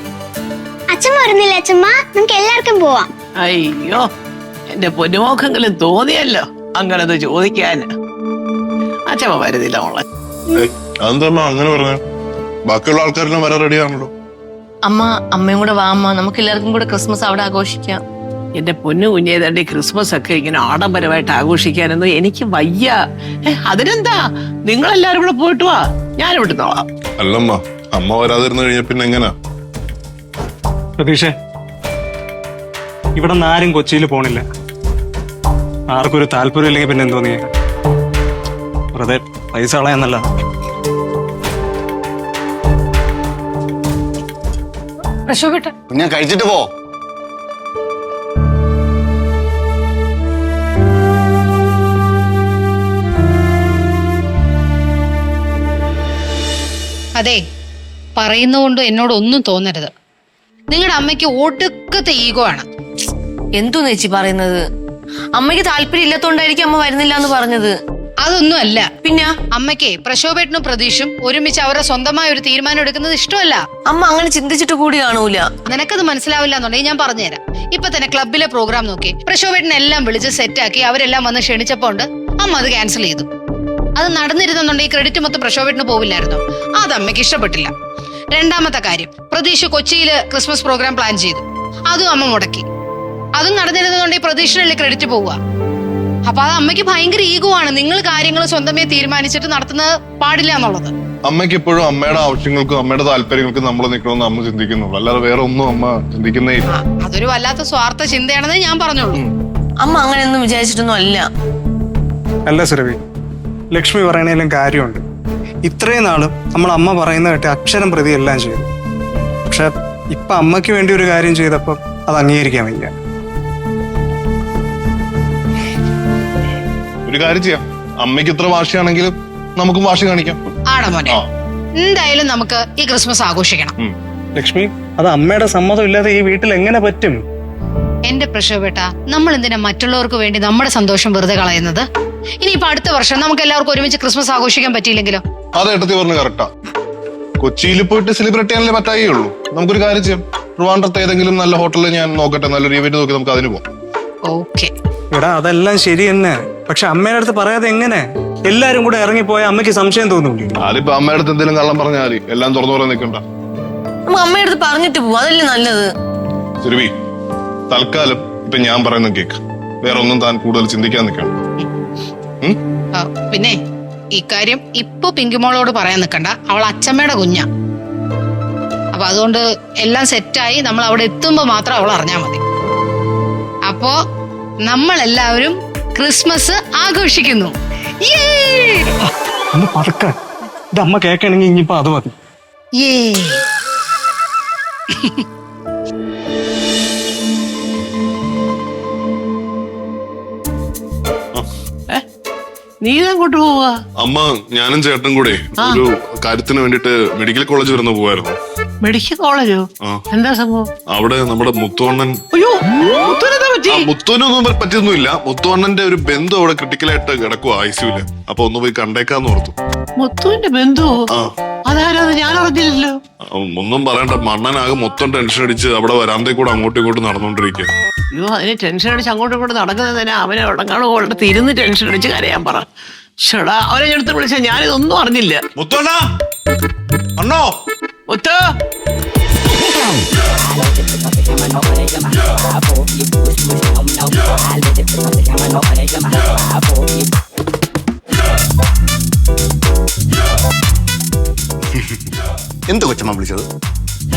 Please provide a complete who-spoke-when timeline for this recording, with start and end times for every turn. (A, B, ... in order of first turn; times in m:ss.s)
0:00.9-0:03.1 A
0:03.4-0:04.0 B
0:04.7-0:07.9 B
0:09.1-0:10.0 B
0:10.5-0:12.0 C
0:12.7-0:14.1 C
0:14.8-0:18.0 D
0:18.6-0:26.8 B
0:27.2-0:29.3 C
0:31.0-0:31.3 E
0:33.2-0:34.4 E
0:35.9-0:37.4 E
0:38.9-0:40.2 E
0:45.2-0:45.7 F
0:45.9-0:46.7 G
0:58.2-0:59.9 F
1:00.7-1:02.7 F
1:03.6-1:04.6 D
1:05.4-1:07.7 D
1:08.2-1:08.9 F
1:09.0-1:09.3 D
1:09.5-1:13.6 F
1:13.9-1:15.5 D
1:15.6-1:23.2 F
1:24.0-1:27.7 F
1:28.3-1:32.6 F
1:33.4-1:35.4 F
1:36.2-1:40.9 F
1:41.2-1:46.7 C
1:46.7-1:49.2 F
1:49.8-1:51.2 D
1:52.5-1:53.0 E
1:53.7-1:55.0 E
1:55.6-1:58.7 E
1:59.5-2:02.9 E
2:07.0-2:10.4 C
2:10.7-2:11.2 F
2:11.8-2:13.7 F
2:14.4-2:17.2 E
2:18.1-2:21.8 F
2:22.4-2:25.2 F
2:25.6-2:26.5 C
2:27.4-2:33.6 C
2:34.2-2:34.7 F
2:35.1-2:40.5 E
2:40.6-2:43.2 C
2:44.1-2:45.9 D
2:46.6-2:46.9 C
2:47.7-2:51.3 C
2:52.9-2:53.6 F
2:54.1-2:57.5 F
2:58.9-3:02.4 F
3:03.7-3:04.0 F
3:04.6-3:08.8 F
3:09.0-3:10.1 E
3:10.8-3:12.2 E
3:12.8-3:13.4 F
3:14.9-3:15.2 F
3:22.8-3:23.8 B
3:24.0-3:28.4 C
3:28.8-3:30.7 B
3:30.9-3:32.2 C
3:32.3-3:33.9 B
3:33.7-3:39.6 C
3:40.0-3:41.1 B
3:41.7-3:43.0 B
3:43.2-3:47.7 C
3:48.1-3:52.7 B
3:53.2-3:55.4 B
3:55.6-3:56.1 C
3:57.2-3:57.6 C
3:58.1-3:58.4 B
4:11.7-4:12.1 G
4:12.7-4:13.5 G